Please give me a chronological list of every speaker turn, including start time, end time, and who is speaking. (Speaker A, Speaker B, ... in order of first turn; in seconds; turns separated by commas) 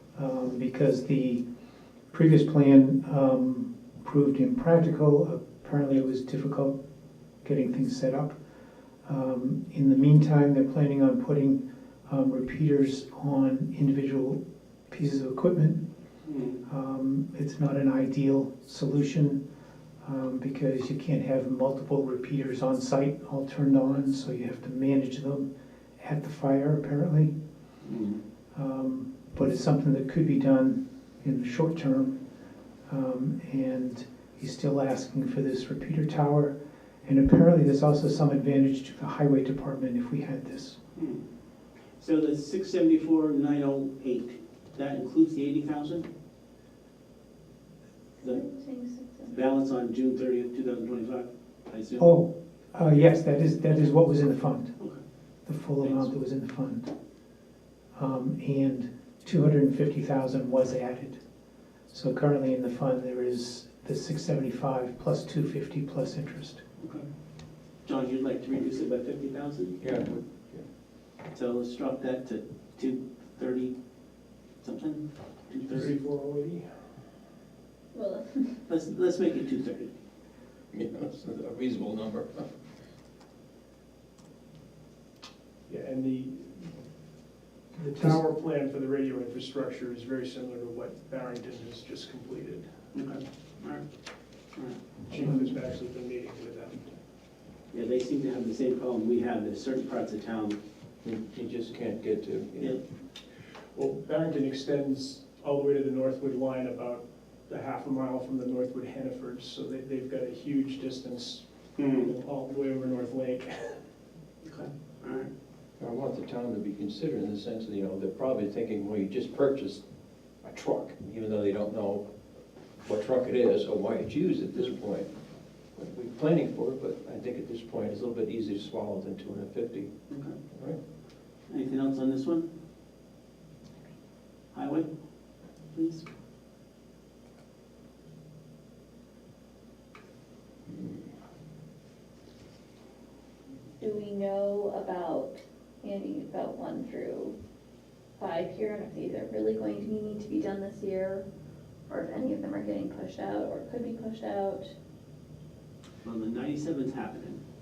Speaker A: 0.1-1.4, Speaker A: 2.1-6.8, Speaker A: 7.4-8.4, Speaker A: 9.0-15.8, Speaker B: 16.2-16.6, Speaker A: 16.6-19.4, Speaker A: 20.0-25.5, Speaker A: 26.0-27.3, Speaker B: 27.8-28.2, Speaker A: 28.5-32.2, Speaker A: 32.9-40.8, Speaker B: 40.9-41.2, Speaker B: 42.0-46.1, Speaker C: 48.2-49.4, Speaker B: 49.3-52.1, Speaker A: 52.0-54.7, Speaker A: 55.4-56.9, Speaker B: 55.8-56.1, Speaker A: 57.9-61.2, Speaker A: 61.9-66.6, Speaker B: 66.8-67.0, Speaker B: 67.8-69.8, Speaker D: 69.8-70.7, Speaker B: 71.3-73.7, Speaker B: 74.6-75.9, Speaker E: 75.7-76.8, Speaker C: 77.9-78.6, Speaker B: 78.7-79.9, Speaker D: 80.7-82.5, Speaker E: 85.7-86.8, Speaker E: 87.8-92.7, Speaker A: 87.8-88.2, Speaker B: 92.9-93.8, Speaker B: 94.5-95.3, Speaker E: 95.1-97.0, Speaker A: 95.1-95.5, Speaker B: 97.7-100.6, Speaker D: 101.0-102.8, Speaker E: 103.7-113.8, Speaker B: 111.8-112.1, Speaker B: 114.4-115.3, Speaker D: 115.8-119.8, Speaker D: 120.4-122.1, Speaker D: 122.8-125.1, Speaker D: 125.7-129.9, Speaker B: 130.1-130.4, Speaker D: 130.5-130.8, Speaker B: 131.5-132.5, Speaker B: 134.5-134.9, Speaker B: 135.7-136.1, Speaker C: 143.8-147.3, Speaker C: 148.2-151.2, Speaker C: 151.9-154.7, Speaker B: 156.0-157.4